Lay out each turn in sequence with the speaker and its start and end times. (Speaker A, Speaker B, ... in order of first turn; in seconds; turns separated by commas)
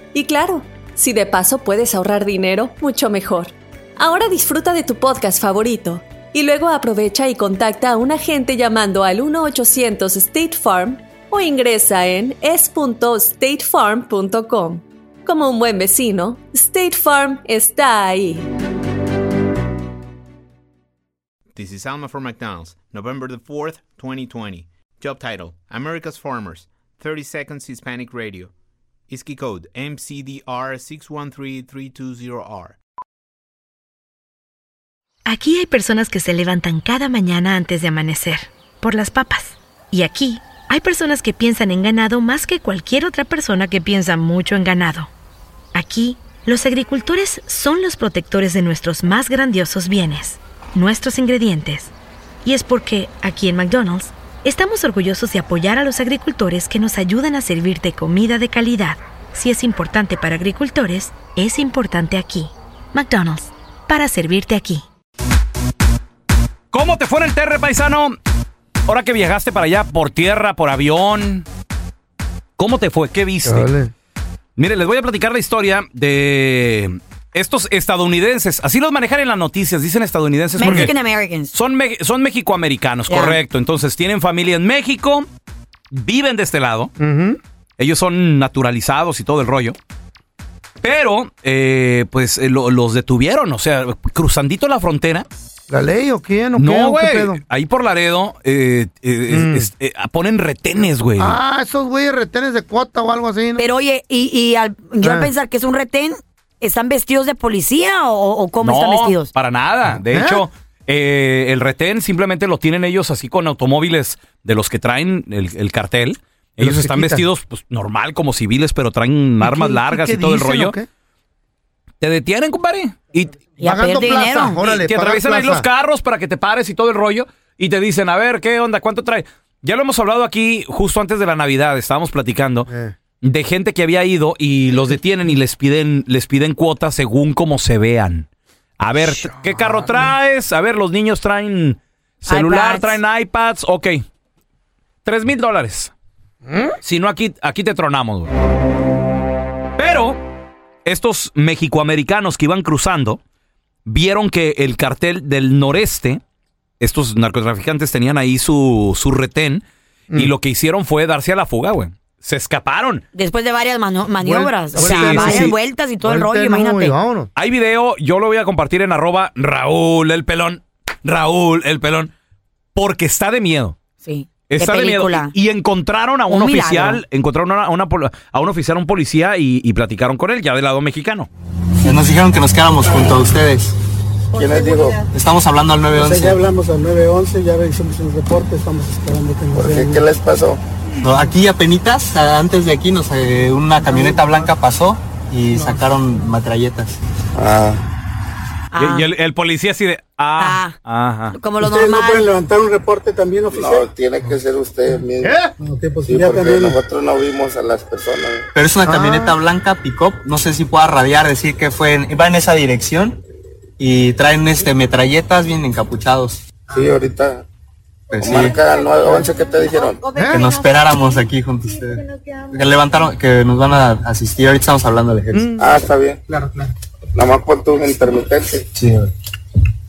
Speaker A: 0.1-18.4, Speaker B: 21.6-28.5, Speaker B: 29.1-32.8, Speaker C: 35.3-45.1, Speaker C: 45.7-51.9, Speaker C: 52.4-64.8, Speaker D: 66.7-68.2, Speaker D: 68.9-71.5, Speaker D: 72.6-73.7, Speaker E: 73.5-73.9, Speaker D: 74.6-81.0, Speaker F: 80.5-81.5, Speaker D: 81.5-85.3, Speaker F: 83.1-83.4, Speaker D: 85.9-86.9, Speaker E: 87.0-87.4, Speaker D: 87.8-89.8, Speaker D: 90.8-95.3, Speaker E: 95.7-97.4, Speaker D: 96.6-101.4, Speaker E: 99.3-99.7, Speaker E: 101.2-103.7, Speaker F: 103.6-109.3, Speaker E: 105.0-105.3, Speaker D: 108.6-120.8, Speaker E: 110.0-110.5, Speaker E: 116.6-117.3, Speaker E: 119.4-120.9, Speaker D: 122.0-123.4, Speaker F: 123.6-124.6, Speaker E: 123.6-125.7, Speaker D: 124.6-132.7, Speaker E: 132.7-133.0, Speaker D: 133.2-138.3, Speaker D: 138.8-144.0, Speaker E: 139.0-140.1, Speaker F: 142.2-143.0, Speaker D: 145.1-145.9, Speaker E: 146.4-146.8, Speaker D: 146.8-148.3, Speaker D: 149.8-150.2, Speaker D: 150.8-153.2, Speaker D: 153.9-156.2, Speaker D: 156.8-163.0, Speaker F: 163.1-166.9, Speaker E: 164.2-167.3, Speaker D: 164.8-165.6, Speaker D: 167.3-172.1, Speaker D: 172.8-173.8, Speaker F: 174.0-175.3, Speaker D: 174.5-181.3, Speaker F: 176.3-177.0, Speaker G: 181.8-183.8, Speaker H: 184.4-185.1, Speaker G: 185.1-186.4, Speaker I: 185.9-190.1, Speaker H: 189.5-190.6, Speaker G: 191.0-197.0, Speaker H: 197.4-197.8, Speaker F: 198.7-199.1, Speaker D: 198.8-201.4, Speaker F: 200.4-200.8, Speaker F: 201.3-202.3, Speaker I: 201.6-204.3, Speaker H: 203.5-205.4, Speaker E: 205.2-205.5, Speaker I: 205.6-206.8, Speaker H: 206.0-208.5, Speaker G: 208.5-213.2, Speaker E: 208.8-209.4, Speaker G: 213.8-216.4, Speaker H: 216.7-217.4, Speaker G: 218.1-218.7, Speaker H: 218.2-220.1, Speaker E: 220.1-220.5, Speaker G: 220.3-225.5, Speaker E: 225.3-225.8, Speaker H: 225.6-226.2, Speaker H: 227.2-228.7, Speaker G: 228.8-229.1